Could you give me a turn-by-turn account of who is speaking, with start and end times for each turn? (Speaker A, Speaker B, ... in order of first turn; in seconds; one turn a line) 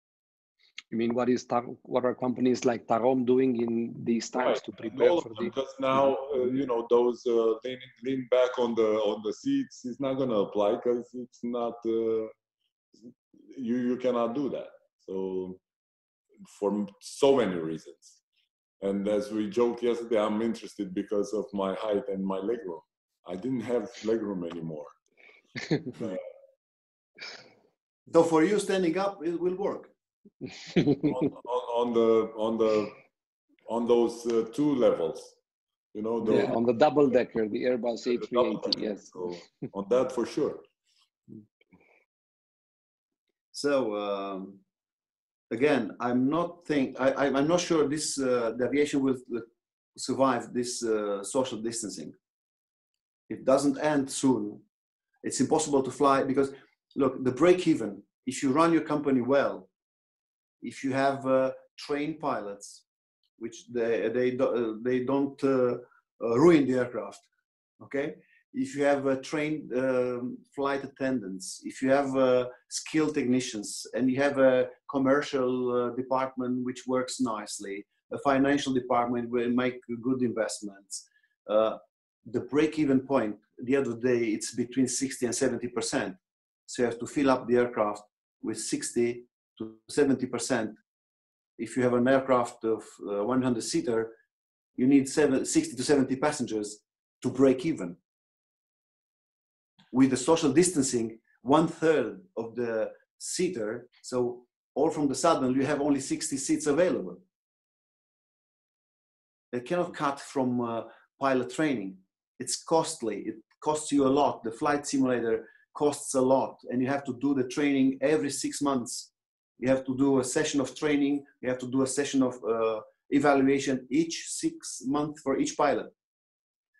Speaker A: 0.9-6.1
Speaker B: 4.4-12.3
Speaker B: 13.5-15.6
Speaker B: 16.5-18.1
Speaker B: 18.8-24.9
Speaker B: 25.9-26.2
Speaker C: 28.1-29.9
Speaker B: 30.9-33.0
Speaker B: 33.7-35.3
Speaker B: 35.9-36.6
Speaker A: 36.2-39.3
Speaker B: 38.1-40.6
Speaker C: 43.5-44.6
Speaker C: 45.5-52.1
Speaker C: 53.3-54.6
Speaker C: 55.2-59.7
Speaker C: 60.6-62.8
Speaker C: 63.4-67.2
Speaker C: 67.8-90.8
Speaker C: 91.6-94.1
Speaker C: 94.8-98.0
Speaker C: 99.9-107.2
Speaker C: 109.5-125.9